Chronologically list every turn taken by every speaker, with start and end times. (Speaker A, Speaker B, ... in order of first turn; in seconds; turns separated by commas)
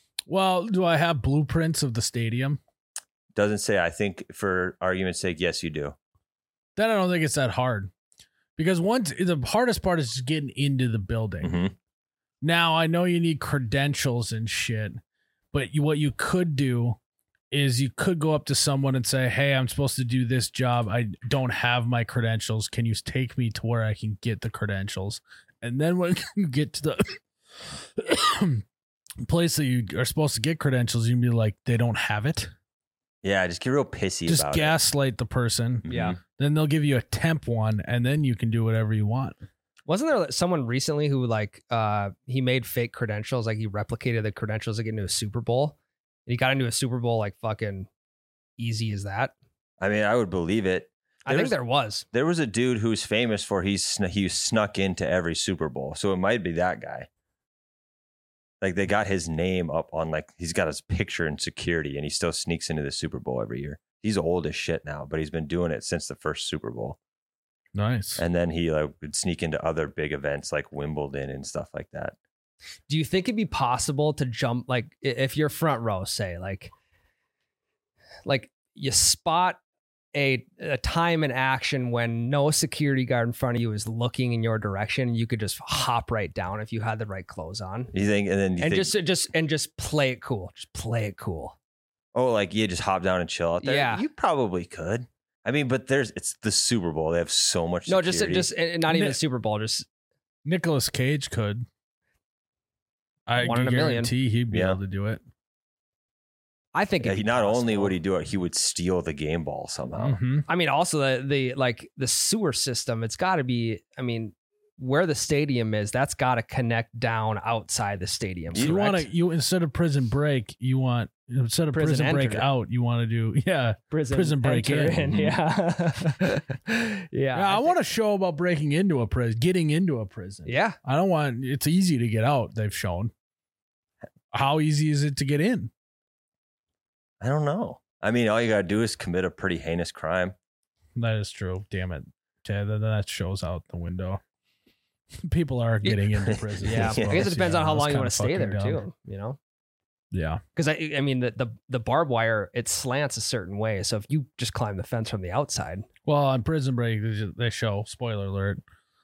Speaker A: 0.3-2.6, Speaker B: 3.3-6.0, Speaker A: 6.8-7.9, Speaker A: 8.6-11.6, Speaker B: 11.4-11.7, Speaker A: 12.4-15.0, Speaker A: 15.5-17.0, Speaker A: 17.5-27.2, Speaker A: 27.7-28.6, Speaker A: 29.2-32.5, Speaker B: 33.2-34.7, Speaker A: 34.3-39.4, Speaker B: 35.9-36.2, Speaker C: 35.9-36.2, Speaker C: 39.9-45.8, Speaker C: 46.3-47.9, Speaker C: 48.6-49.3, Speaker B: 49.8-51.5, Speaker C: 51.2-52.0, Speaker B: 52.1-57.1, Speaker B: 58.6-67.0, Speaker A: 67.7-68.2, Speaker B: 68.2-72.1, Speaker C: 72.9-76.7, Speaker C: 78.2-79.6, Speaker C: 80.1-87.9, Speaker B: 87.9-89.0, Speaker C: 88.6-91.5, Speaker B: 92.1-98.5, Speaker C: 93.6-94.0, Speaker C: 97.9-99.8, Speaker A: 98.9-99.2, Speaker A: 100.4-101.7, Speaker A: 103.3-105.2, Speaker C: 103.4-104.1, Speaker B: 104.5-104.8, Speaker C: 106.7-107.9, Speaker B: 107.0-110.2, Speaker A: 110.0-110.5, Speaker C: 110.5-119.1, Speaker A: 118.6-125.3, Speaker C: 121.7-122.5, Speaker C: 123.9-127.8, Speaker A: 127.3-133.1, Speaker C: 130.4-130.8, Speaker A: 134.3-135.7, Speaker B: 137.2-140.3, Speaker A: 140.9-144.2, Speaker A: 145.2-148.8, Speaker B: 146.2-147.3, Speaker C: 146.6-149.4, Speaker A: 150.1-150.4, Speaker C: 150.5-155.9, Speaker A: 156.0-158.6